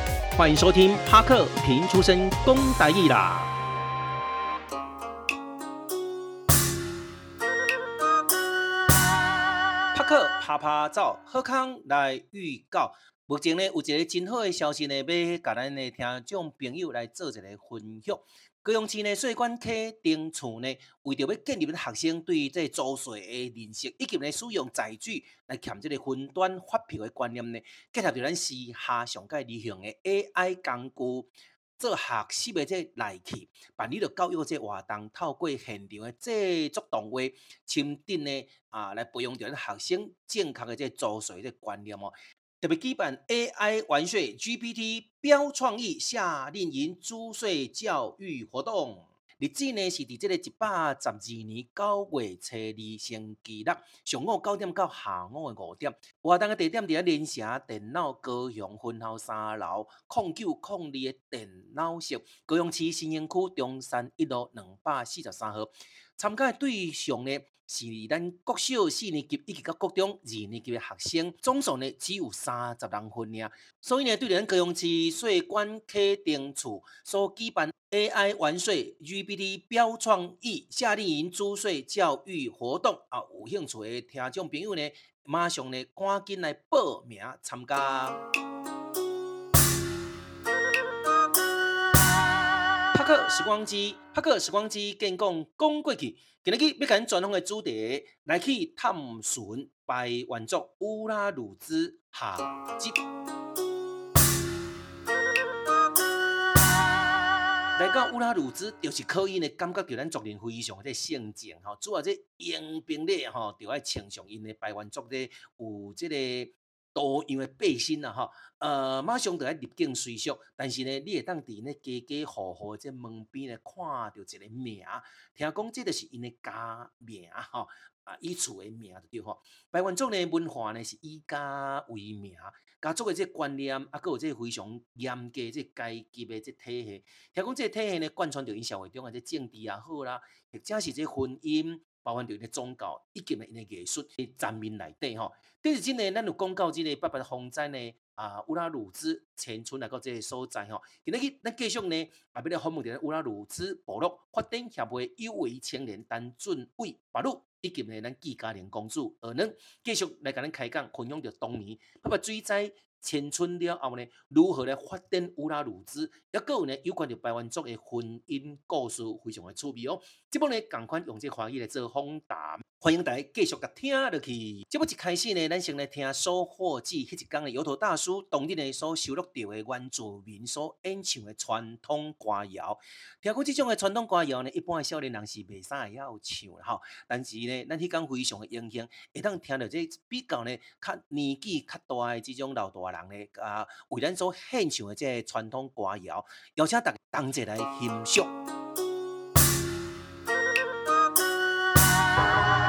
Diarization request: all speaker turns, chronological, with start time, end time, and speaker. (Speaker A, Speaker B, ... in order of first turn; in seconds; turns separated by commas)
Speaker A: 0.4-3.5, Speaker A: 9.9-88.2, Speaker A: 92.9-103.0, Speaker A: 107.8-198.3